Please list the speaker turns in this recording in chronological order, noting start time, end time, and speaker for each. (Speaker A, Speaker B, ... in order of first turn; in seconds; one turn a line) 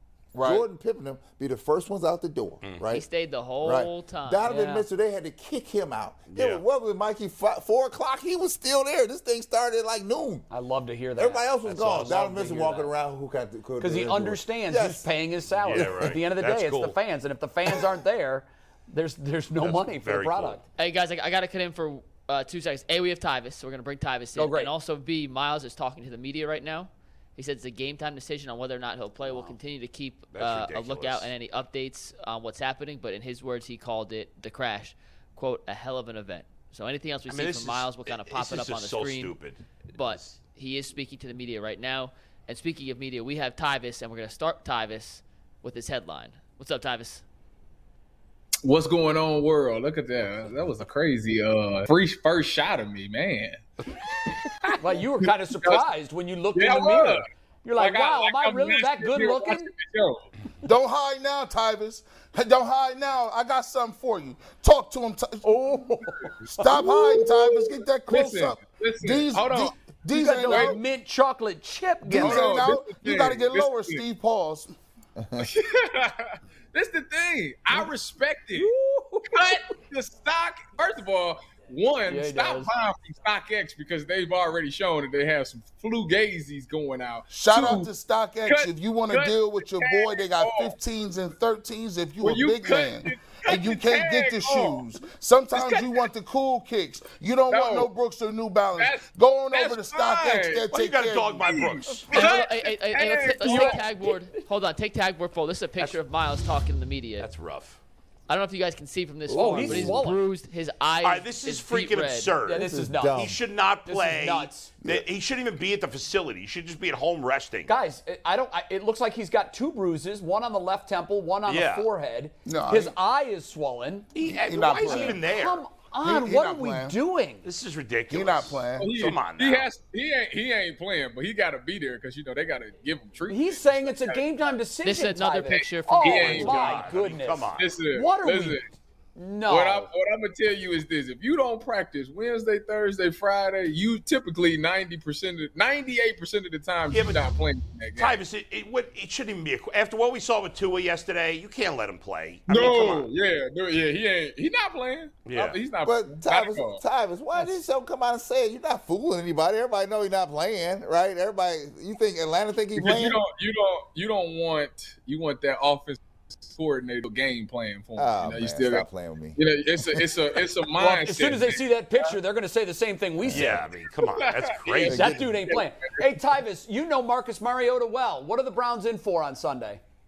Speaker A: 0.3-0.6
Speaker B: 0.4-3.0
Speaker C: 2.9-4.4
Speaker B: 3.6-10.5
Speaker D: 4.5-4.8
Speaker E: 6.3-6.6
Speaker D: 10.5-12.9
Speaker B: 11.2-15.1
Speaker D: 13.8-20.6
Speaker E: 15.6-16.9
Speaker E: 19.6-20.6
Speaker C: 20.8-39.4
Speaker D: 24.4-24.7
Speaker D: 29.3-29.5
Speaker E: 30.3-31.3
Speaker E: 37.3-40.1
Speaker C: 39.9-47.2
Speaker F: 48.6-53.6
Speaker F: 54.2-55.8
Speaker D: 54.8-59.7
Speaker F: 56.5-57.2
Speaker F: 57.8-60.3
Speaker A: 60.6-65.5
Speaker D: 65.4-66.9
Speaker A: 66.5-70.8
Speaker F: 66.7-69.7
Speaker D: 70.1-72.6
Speaker F: 70.5-70.8
Speaker F: 72.1-74.0
Speaker A: 72.1-74.7
Speaker B: 75.2-75.4
Speaker F: 75.4-78.7
Speaker D: 78.5-79.6
Speaker F: 79.3-87.9
Speaker D: 82.1-82.7
Speaker A: 87.3-102.0
Speaker F: 88.5-90.7
Speaker F: 92.2-94.8
Speaker F: 95.5-96.0
Speaker F: 97.5-97.9
Speaker F: 98.8-100.7
Speaker E: 100.7-102.1
Speaker F: 101.4-103.9
Speaker C: 102.1-107.3
Speaker D: 103.4-103.9
Speaker E: 107.2-107.8
Speaker C: 108.3-112.4
Speaker B: 109.3-110.0
Speaker D: 109.3-110.2
Speaker E: 111.0-117.7
Speaker D: 112.4-113.3
Speaker B: 112.6-113.4
Speaker D: 113.8-114.7
Speaker D: 117.7-127.4
Speaker E: 121.5-121.9
Speaker A: 122.5-123.0
Speaker E: 124.1-125.6
Speaker A: 124.3-125.3
Speaker A: 126.0-127.0
Speaker E: 127.4-129.7
Speaker A: 128.1-129.1
Speaker F: 128.8-134.3
Speaker D: 133.3-138.6
Speaker C: 134.8-136.6
Speaker F: 135.5-136.8
Speaker E: 136.1-137.7
Speaker F: 137.6-138.6
Speaker D: 139.2-139.9
Speaker F: 139.5-148.2
Speaker E: 146.9-147.2
Speaker E: 148.0-153.1
Speaker F: 152.5-156.8
Speaker E: 155.2-155.6
Speaker B: 155.8-163.2
Speaker F: 162.8-168.8
Speaker B: 167.9-169.4
Speaker F: 169.4-171.6
Speaker D: 170.8-173.6
Speaker B: 173.3-173.6
Speaker E: 173.3-175.3
Speaker F: 174.0-175.7
Speaker D: 174.9-179.8
Speaker B: 175.0-175.4